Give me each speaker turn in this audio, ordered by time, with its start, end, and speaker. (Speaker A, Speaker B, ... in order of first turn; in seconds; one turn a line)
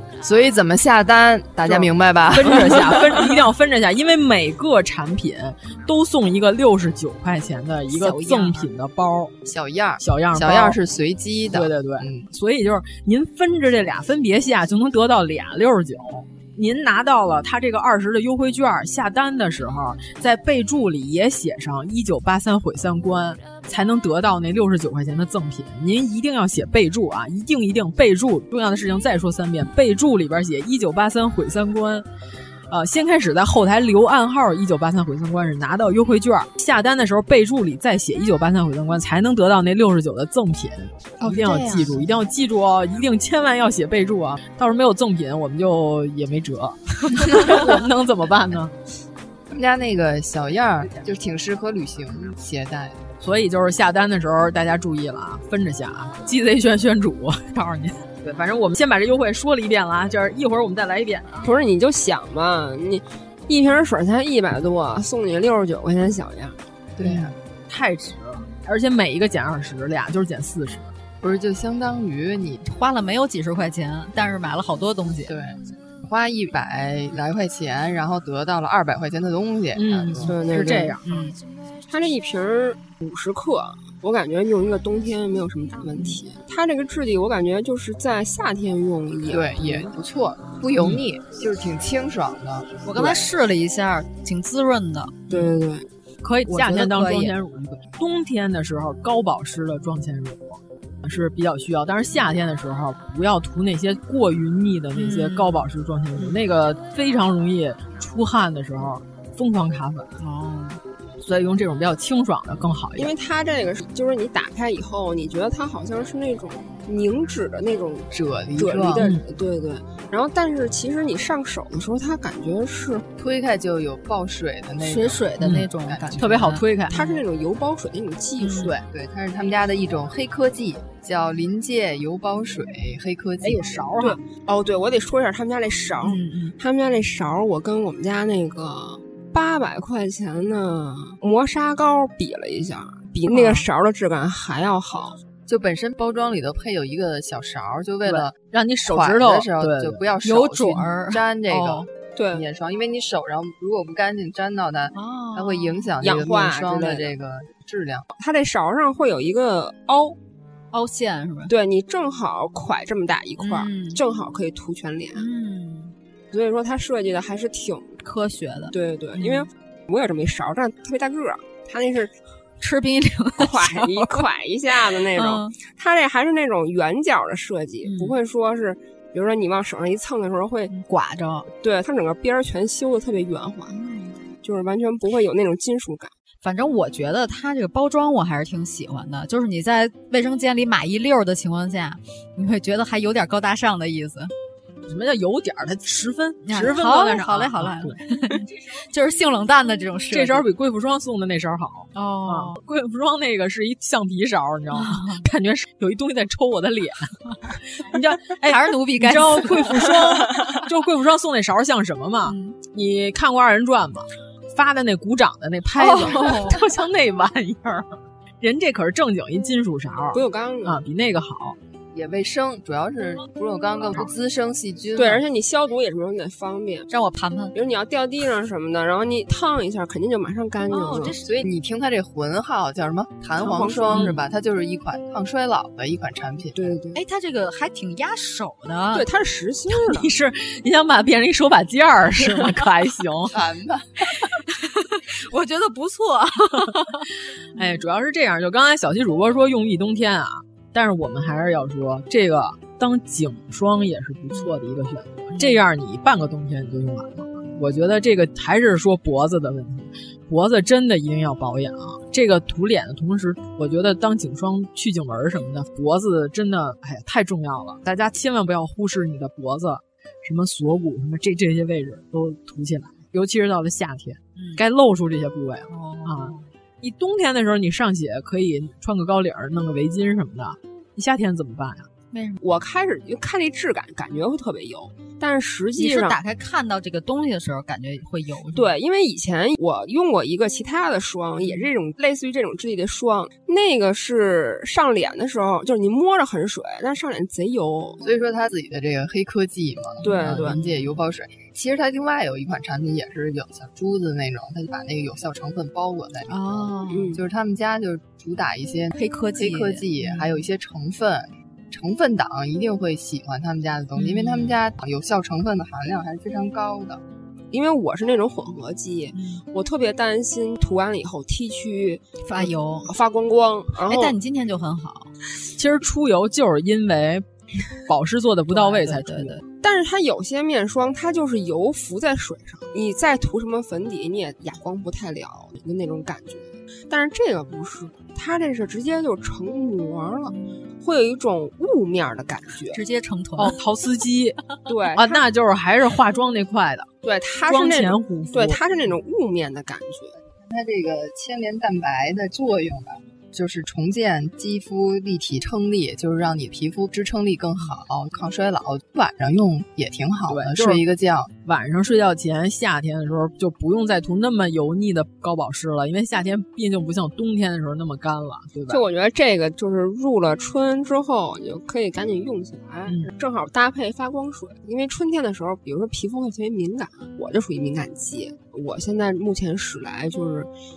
Speaker A: 0.2-3.0
Speaker B: 1.7-9.3
Speaker C: 7.9-8.7
Speaker A: 9.4-12.3
Speaker B: 10.0-10.8
Speaker B: 11.5-32.0
Speaker B: 32.7-48.7
Speaker C: 41.2-42.0
Speaker A: 49.5-53.0
Speaker B: 53.2-61.5
Speaker D: 61.4-66.6
Speaker A: 67.0-67.3
Speaker B: 67.0-70.9
Speaker A: 71.2-72.6
Speaker C: 72.6-75.3
Speaker A: 75.2-80.4
Speaker B: 79.7-81.3
Speaker D: 80.2-81.0
Speaker C: 81.0-81.4
Speaker D: 81.9-89.9
Speaker A: 89.3-93.2
Speaker B: 90.8-91.0
Speaker C: 92.8-95.2
Speaker D: 95.3-95.9
Speaker B: 96.2-110.1
Speaker C: 96.5-97.3
Speaker C: 104.9-105.7
Speaker C: 110.2-110.8
Speaker B: 111.2-113.1
Speaker D: 113.0-123.0
Speaker A: 118.1-119.0
Speaker A: 123.2-126.3
Speaker C: 124.8-127.2
Speaker B: 125.4-125.7
Speaker B: 126.2-127.0
Speaker D: 126.9-128.7
Speaker C: 128.4-128.7
Speaker A: 128.9-133.9
Speaker B: 133.4-134.2
Speaker D: 134.0-145.2
Speaker C: 136.0-136.5
Speaker C: 143.3-143.6
Speaker A: 145.5-158.1
Speaker B: 148.0-150.1
Speaker C: 150.2-151.9
Speaker D: 152.2-152.4
Speaker C: 154.9-155.9
Speaker D: 156.0-157.1
Speaker D: 158.2-160.2
Speaker C: 160.7-161.5
Speaker D: 161.5-165.3
Speaker C: 163.4-164.0
Speaker C: 165.1-165.9
Speaker D: 166.3-168.0
Speaker C: 168.0-169.4
Speaker D: 168.7-172.1
Speaker C: 172.6-174.3
Speaker D: 173.4-180.7
Speaker C: 175.1-175.5
Speaker C: 177.8-178.1
Speaker C: 180.7-181.5
Speaker D: 181.6-183.8
Speaker C: 183.7-184.2
Speaker D: 184.4-186.1
Speaker C: 186.4-194.3
Speaker B: 194.8-198.0
Speaker C: 196.4-200.5
Speaker B: 200.1-221.6
Speaker C: 201.9-202.6
Speaker C: 204.7-205.2
Speaker C: 208.4-209.9
Speaker C: 212.2-212.6
Speaker C: 215.8-216.6
Speaker D: 220.1-220.8
Speaker A: 221.9-225.2
Speaker D: 224.9-226.9
Speaker C: 226.9-227.5
Speaker D: 227.5-231.2
Speaker C: 230.7-231.4
Speaker A: 231.2-236.7
Speaker D: 233.3-234.2
Speaker B: 233.9-234.2
Speaker D: 236.5-237.0
Speaker C: 236.9-239.1
Speaker D: 238.9-240.1
Speaker B: 239.7-243.4
Speaker A: 243.3-244.1
Speaker C: 244.5-247.1
Speaker B: 247.5-281.9
Speaker C: 274.4-274.6
Speaker C: 275.7-276.4
Speaker C: 282.1-282.4
Speaker D: 282.4-286.2
Speaker C: 285.8-288.7
Speaker D: 288.5-298.0
Speaker A: 298.0-317.0
Speaker D: 300.0-300.6
Speaker C: 300.0-300.7
Speaker C: 306.3-307.1
Speaker D: 306.9-307.2
Speaker C: 308.9-310.3
Speaker C: 313.9-314.5
Speaker D: 317.5-324.1
Speaker C: 319.1-319.4
Speaker C: 322.2-322.9
Speaker C: 323.8-325.1
Speaker B: 325.6-327.2
Speaker B: 327.9-329.4
Speaker C: 328.5-329.4
Speaker D: 329.6-342.8
Speaker C: 342.7-343.5
Speaker B: 343.4-344.4
Speaker D: 344.7-345.2
Speaker B: 344.9-346.9
Speaker D: 347.0-350.1
Speaker B: 347.4-348.6
Speaker A: 350.4-361.3
Speaker B: 360.3-360.8
Speaker B: 361.4-368.8
Speaker D: 368.7-380.5